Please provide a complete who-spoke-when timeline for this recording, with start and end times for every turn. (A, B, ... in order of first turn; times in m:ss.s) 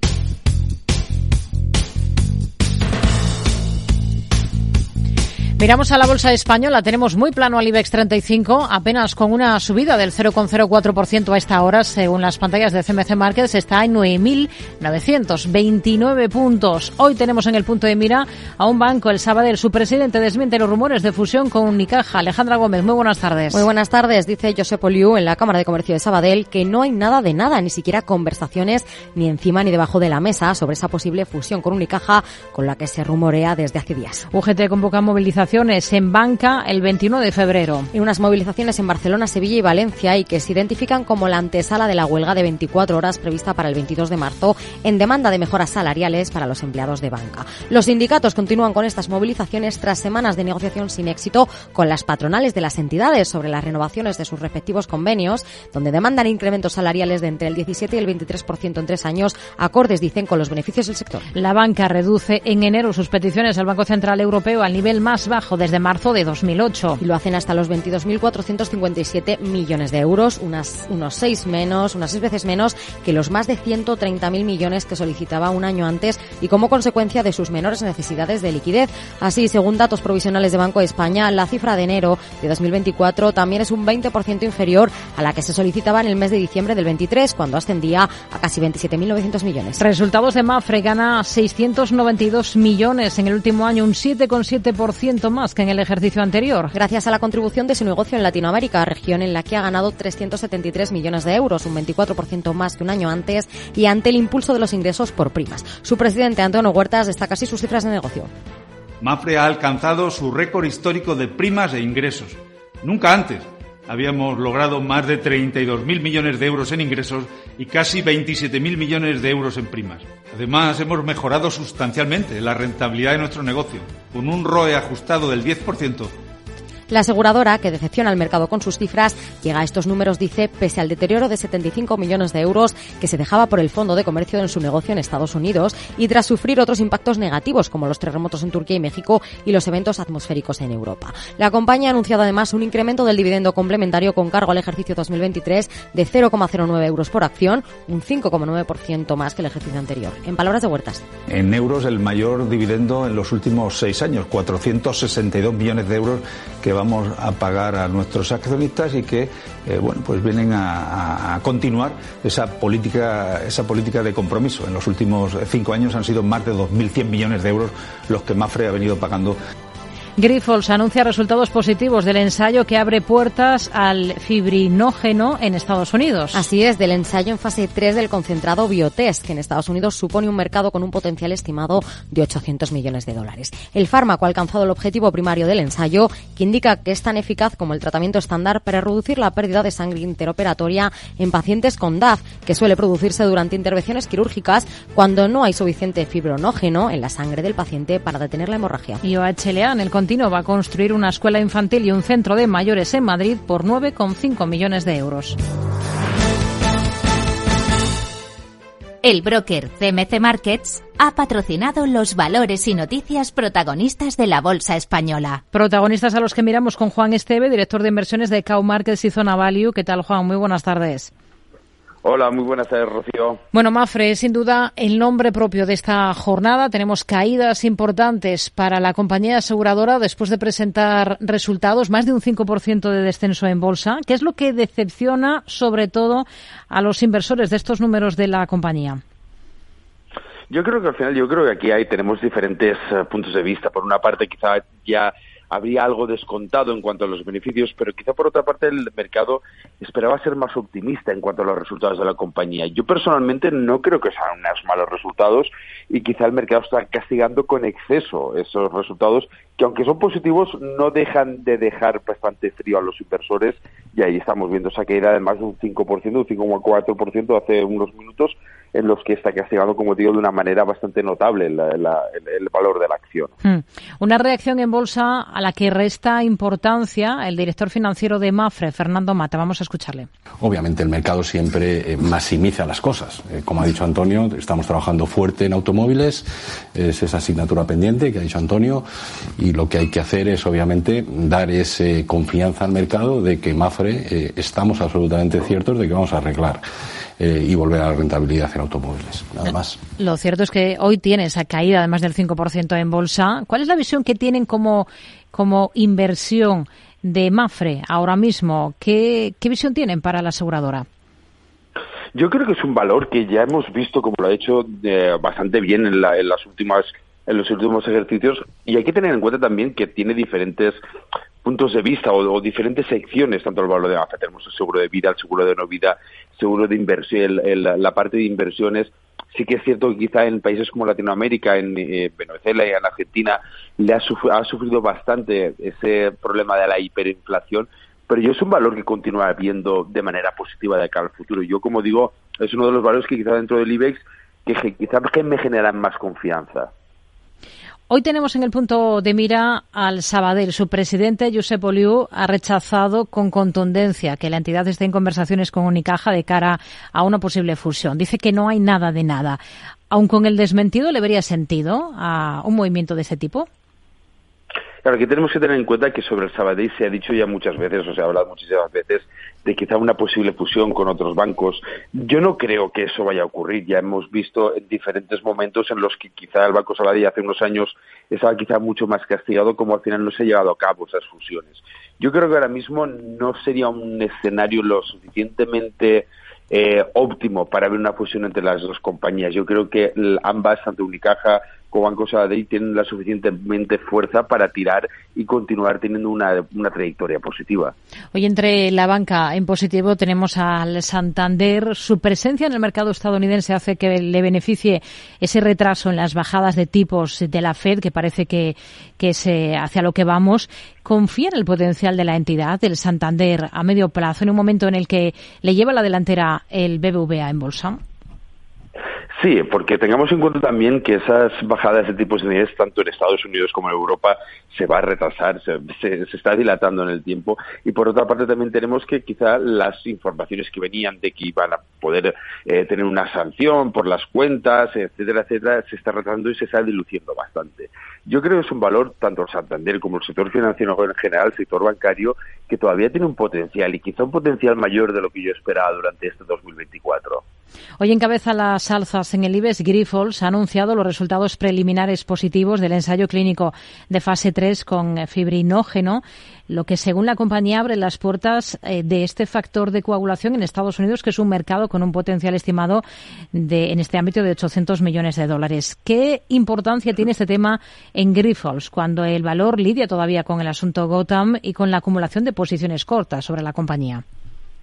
0:05.6-0:23.6 A
0:23.5-0:34.3 B
0:34.3-0:37.9 A
0:37.9-1:01.2 B
1:01.3-1:07.0 A
1:07.0-1:29.8 B
1:29.8-1:36.7 A
1:36.7-1:48.3 B
1:49.0-2:06.1 C
2:06.9-2:31.0 B
2:31.3-2:49.4 C
2:50.2-2:56.4 A
2:56.3-3:19.0 B
3:19.0-3:25.4 A
3:29.0-3:35.4 D
3:35.5-3:41.1 A
3:42.0-3:43.4 E
3:43.5-3:59.0 A
4:00.5-4:33.3 E
4:33.4-4:40.1 A
4:40.4-4:48.8 F
4:49.4-4:56.6 F
4:57.2-4:59.8 F
5:00.0-5:10.8 A
5:12.1-5:20.8 E
5:21.4-5:46.7 E
5:47.9-6:03.5 A
6:04.8-6:37.7 E
6:38.1-6:57.8 A
6:59.2-7:27.2 E
7:27.8-7:54.0 A